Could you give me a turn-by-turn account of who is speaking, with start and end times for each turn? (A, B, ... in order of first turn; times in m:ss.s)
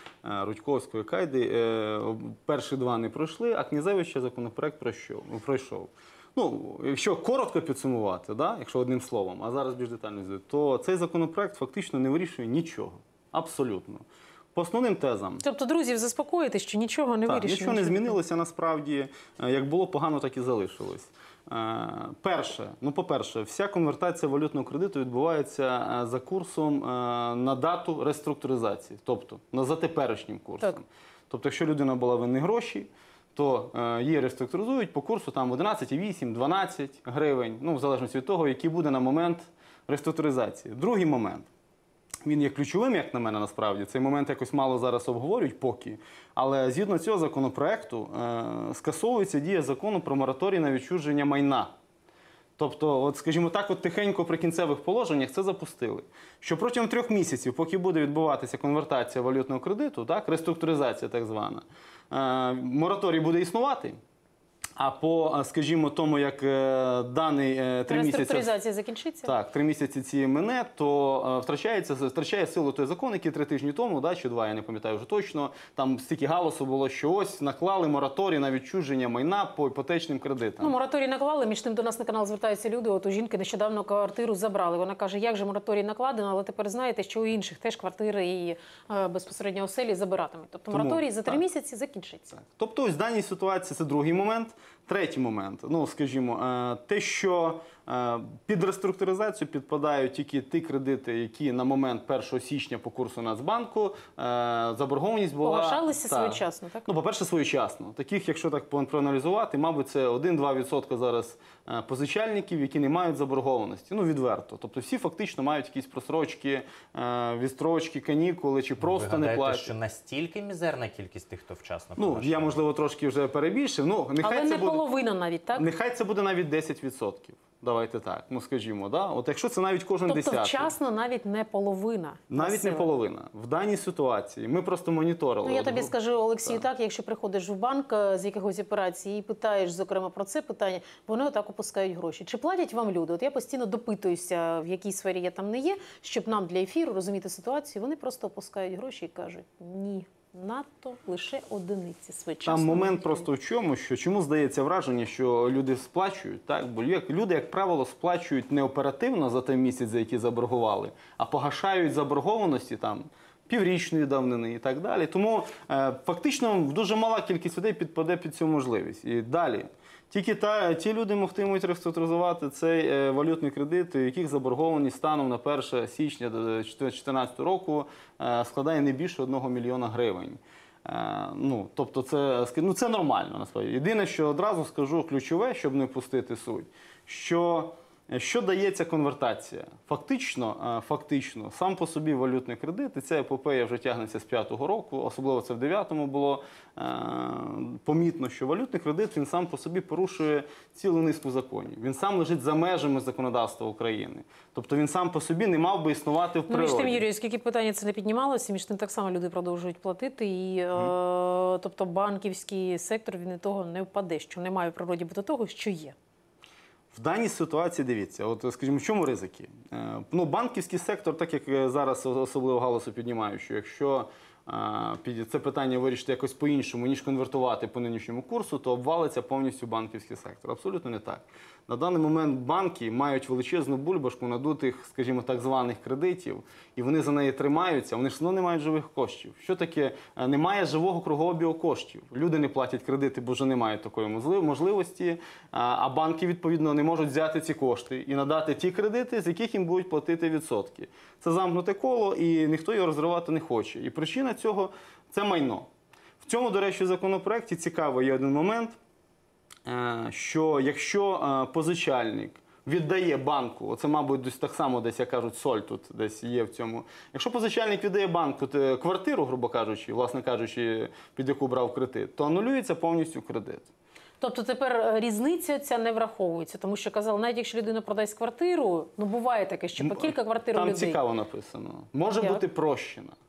0:00.2-0:15.4 A
0:15.4-0:18.2 B
0:17.3-0:41.5 A
0:42.2-0:51.7 A
0:52.6-1:04.0 A
1:04.8-1:08.5 A
1:07.9-1:09.3 B
1:09.2-1:20.7 A
1:20.6-1:32.4 B
1:30.7-1:31.4 A
1:32.4-1:59.7 A
1:45.4-1:46.9 B
1:58.8-2:02.6 C
2:02.0-2:04.9 A
2:04.2-2:05.7 B
2:05.6-2:10.7 A
2:10.1-2:12.9 B
2:12.3-2:16.6 A
2:15.4-2:33.3 B
2:32.4-3:27.0 A
3:26.5-3:36.0 B
3:36.9-4:15.7 A
4:16.2-4:18.8 A
4:19.7-4:33.7 A
4:34.2-4:41.0 B
4:39.8-4:43.2 A